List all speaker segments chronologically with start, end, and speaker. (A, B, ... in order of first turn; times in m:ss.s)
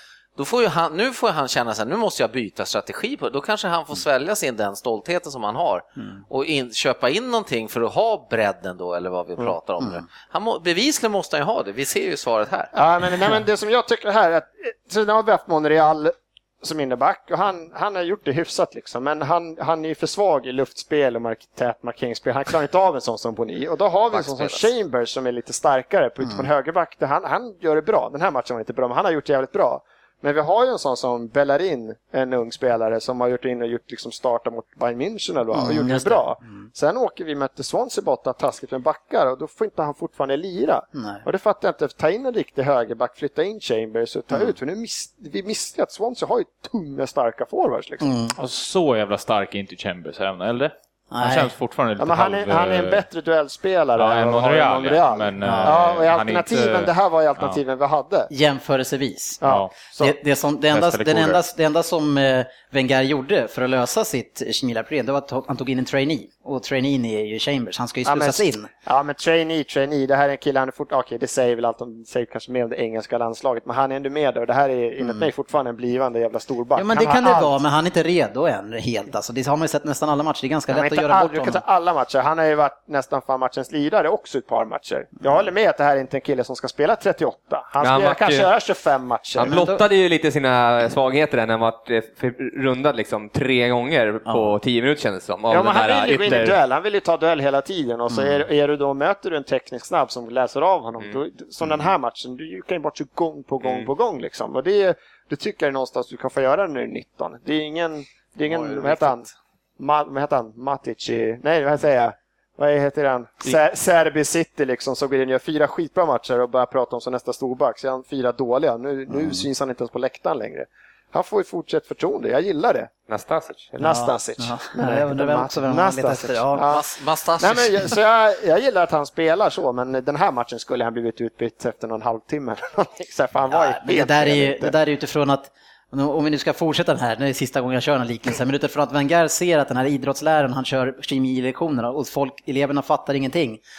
0:00.4-0:12.7 A
0:06.0-0:06.2 B
0:12.7-0:48.1 C
0:24.1-0:24.7 A
0:35.5-0:36.7 B
0:40.9-0:41.2 B
0:48.0-0:48.3 B
0:48.4-0:53.0 D
0:51.1-0:51.5 B
0:52.0-0:58.3 C
0:54.0-0:57.6 D
0:55.4-0:55.8 B
0:58.3-0:59.4 B
0:59.4-1:00.1 C
0:59.4-0:59.7 D
1:00.0-1:08.7 B
1:00.7-1:01.4 D
1:08.0-1:17.6 C
1:15.0-1:15.3 B
1:16.8-1:21.6 B
1:20.7-1:29.5 C
1:27.8-1:28.5 E
1:29.4-1:29.8 B
1:29.4-1:36.6 E
1:34.3-1:34.5 B
1:35.5-1:49.3 C
1:38.1-1:38.4 B
1:48.5-1:49.3 A
1:49.8-2:02.9 C
1:59.1-1:59.4 B
2:03.1-2:03.7 E
2:03.7-2:06.9 C
2:03.8-2:06.6 B
2:06.6-2:07.9 A
2:07.4-2:14.8 C
2:13.5-2:23.6 B